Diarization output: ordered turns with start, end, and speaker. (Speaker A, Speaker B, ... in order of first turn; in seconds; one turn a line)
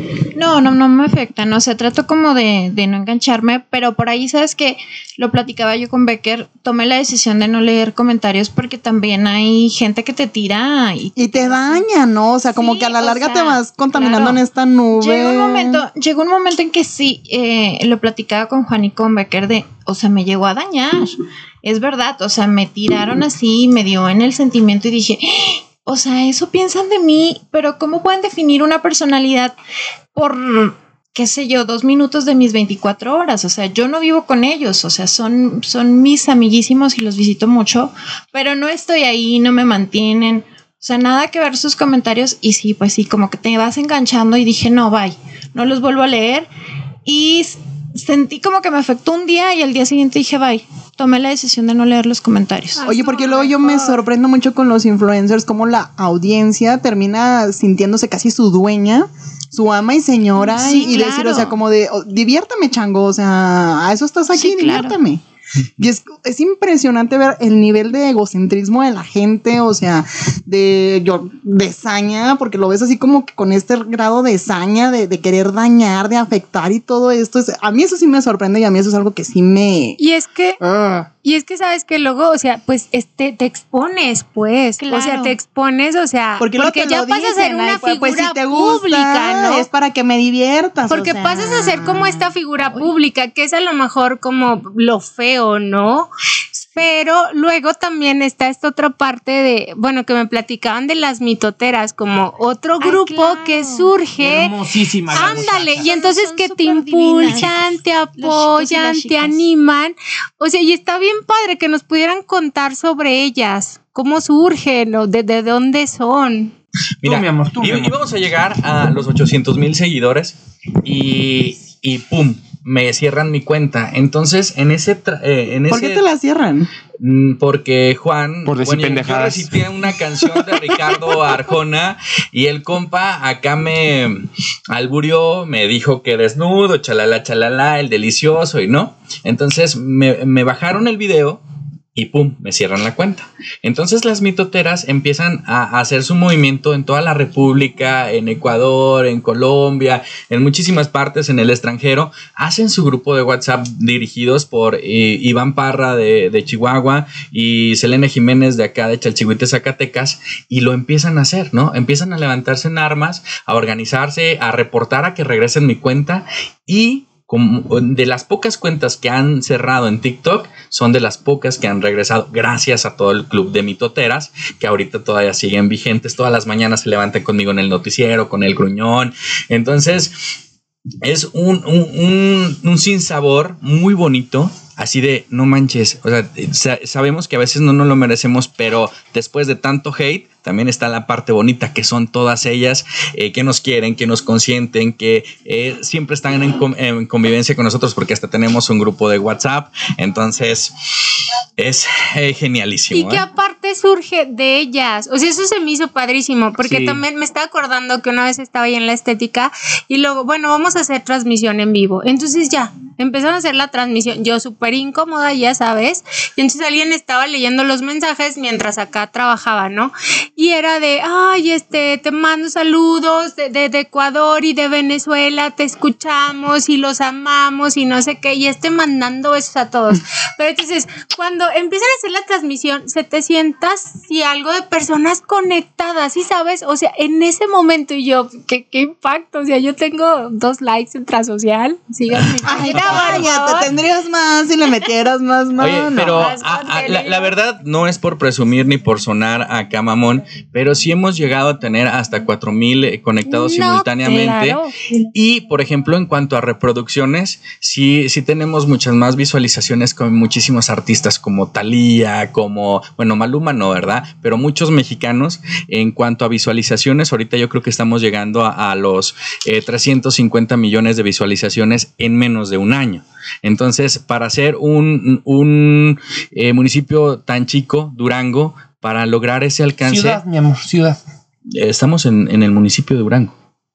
Speaker A: 0.3-11.8
Speaker B: 11.2-15.8
Speaker A: 12.5-14.4
Speaker A: 14.9-29.6
Speaker A: 30.1-46.5
Speaker A: 47.0-52.9
Speaker C: 52.8-54.0
Speaker B: 52.9-65.2
Speaker A: 60.4-61.6
Speaker A: 64.3-65.0
Speaker B: 65.8-80.0
Speaker C: 80.0-80.6
Speaker B: 80.6-81.1
Speaker C: 81.2-89.7
Speaker A: 84.8-85.4
Speaker B: 86.4-92.2
Speaker C: 90.9-104.5
Speaker A: 102.8-103.9
Speaker D: 104.2-105.9
Speaker A: 105.1-109.5
Speaker C: 105.1-116.5
Speaker E: 117.0-126.0
Speaker D: 117.0-118.0
Speaker B: 125.7-126.7
Speaker E: 127.0-141.4
Speaker D: 128.5-130.0
Speaker E: 141.9-180.2
Speaker E: 181.0-200.7
Speaker E: 201.6-203.3
Speaker C: 202.9-243.7
Speaker D: 206.6-207.0
Speaker B: 242.4-246.3
Speaker E: 242.7-243.2
Speaker E: 245.6-254.6
Speaker C: 246.1-247.3
Speaker C: 253.3-254.7
Speaker E: 255.1-280.2
Speaker D: 279.8-281.0
Speaker E: 281.5-283.3